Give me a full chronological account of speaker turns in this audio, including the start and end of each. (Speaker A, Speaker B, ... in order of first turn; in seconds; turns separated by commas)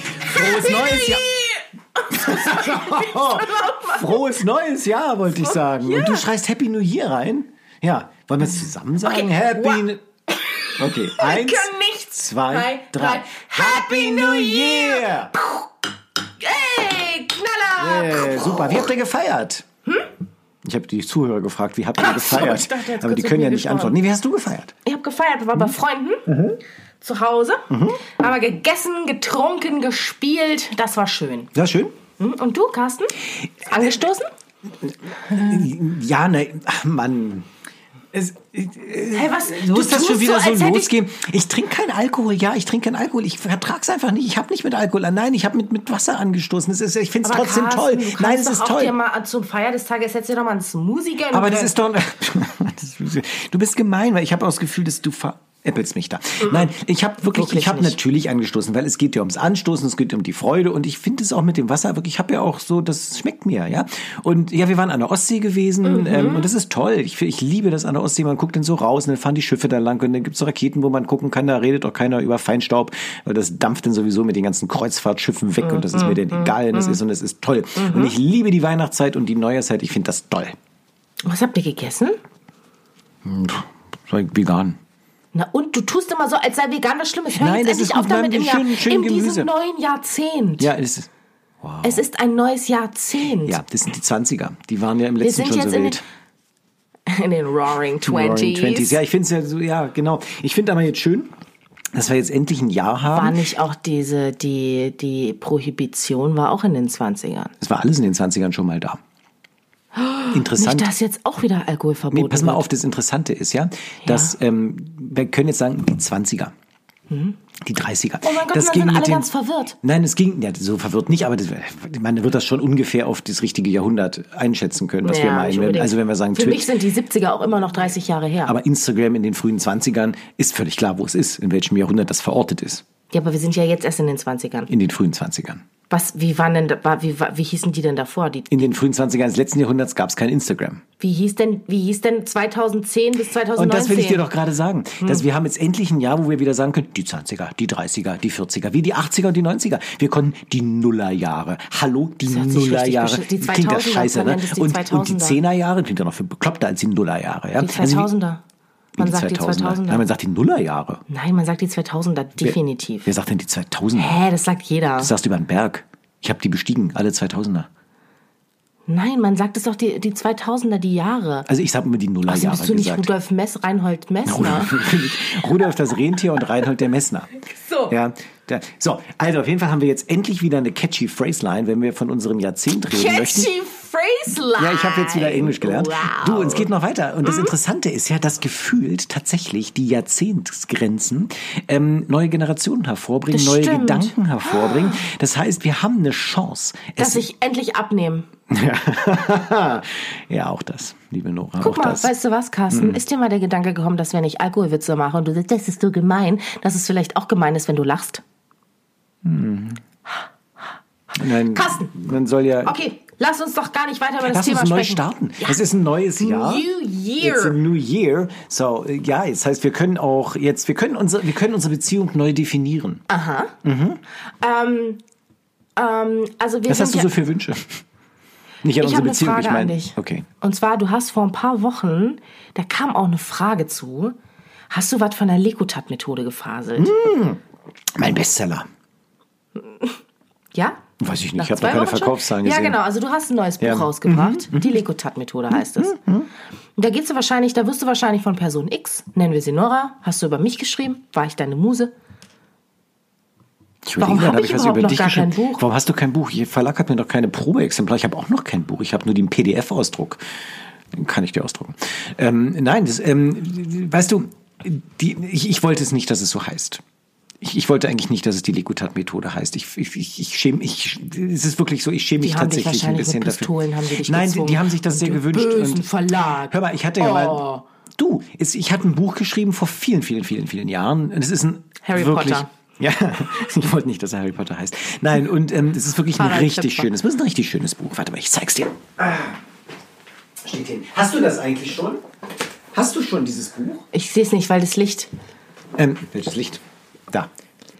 Speaker A: 0.2-1.2, Speaker B: 0.3-4.3, Speaker A: 2.1-10.0, Speaker B: 5.3-6.2, Speaker B: 9.0-9.8, Speaker B: 10.4-15.6, Speaker A: 10.8-15.3, Speaker B: 16.4-18.8, Speaker A: 17.8-19.6, Speaker A: 20.6-24.7, Speaker B: 22.0-24.0, Speaker B: 24.8-26.3, Speaker A: 26.3-26.6, Speaker B: 27.0-31.5, Speaker A: 27.7-28.0, Speaker A: 31.5-31.9, Speaker B: 32.2-34.3, Speaker A: 34.8-37.5, Speaker A: 38.1-49.0, Speaker B: 39.1-40.9, Speaker B: 47.2-51.7, Speaker A: 51.3-80.6, Speaker B: 56.4-56.7, Speaker B: 57.2-58.0, Speaker B: 65.8-66.5, Speaker B: 75.6-77.0, Speaker B: 77.8-78.1, Speaker B: 81.2-82.2, Speaker A: 83.2-84.8, Speaker B: 85.3-90.7, Speaker A: 87.4-89.5, Speaker A: 90.6-91.1, Speaker A: 91.6-92.0, Speaker B: 91.8-93.6, Speaker A: 93.4-96.0, Speaker B: 95.2-96.0, Speaker B: 97.1-99.0, Speaker A: 98.0-101.3, Speaker A: 101.9-103.4, Speaker B: 103.1-107.5, Speaker A: 107.6-109.0, Speaker B: 109.9-112.6, Speaker A: 110.3-110.9, Speaker A: 112.1-116.5, Speaker B: 114.0-114.3, Speaker B: 117.1-117.3, Speaker A: 117.6-119.3, Speaker B: 118.2-119.8, Speaker A: 119.8-126.7, Speaker B: 125.0-128.5, Speaker A: 128.4-132.8, Speaker B: 133.1-134.7, Speaker A: 134.7-135.6, Speaker B: 135.9-138.7, Speaker A: 138.5-140.8, Speaker B: 141.0-144.2, Speaker A: 143.5-158.1, Speaker B: 152.2-155.4, Speaker B: 157.6-158.4, Speaker A: 158.9-161.0, Speaker B: 159.0-160.0, Speaker B: 161.1-163.1, Speaker A: 162.4-164.2, Speaker B: 163.9-165.1, Speaker A: 165.0-167.7, Speaker B: 168.9-171.5, Speaker A: 171.4-173.1, Speaker B: 172.3-174.9, Speaker A: 174.2-177.4, Speaker B: 177.4-177.9, Speaker A: 177.9-183.5, Speaker B: 182.9-186.7, Speaker A: 184.6-197.2, Speaker B: 187.2-187.5, Speaker B: 193.3-195.0, Speaker B: 197.0-198.3, Speaker A: 198.5-202.1, Speaker B: 201.6-208.2, Speaker A: 202.7-203.0, Speaker A: 209.2-209.8, Speaker A: 211.1-212.8, Speaker B: 211.3-211.9, Speaker B: 212.6-215.6, Speaker A: 214.2-216.7, Speaker B: 216.2-217.6, Speaker A: 217.2-223.0, Speaker B: 223.1-223.6, Speaker A: 223.6-224.0, Speaker B: 224.4-225.0, Speaker B: 225.8-227.1, Speaker A: 226.7-227.8, Speaker A: 228.6-230.2, Speaker B: 228.8-234.2, Speaker B: 234.7-236.9, Speaker A: 236.8-237.4, Speaker A: 237.9-238.7, Speaker B: 239.6-240.0, Speaker B: 240.5-240.8, Speaker A: 241.0-242.8, Speaker B: 241.3-245.9, Speaker A: 243.6-244.8, Speaker A: 245.5-246.3, Speaker B: 246.8-251.9, Speaker A: 253.8-260.2, Speaker B: 254.0-255.6, Speaker A: 260.9-266.8, Speaker A: 267.4-273.5, Speaker B: 272.2-277.6, Speaker A: 274.0-277.4, Speaker A: 277.9-289.4, Speaker B: 281.8-282.5, Speaker B: 286.1-286.9, Speaker A: 290.4-292.0, Speaker A: 292.7-293.9, Speaker B: 293.9-295.1, Speaker A: 295.7-297.3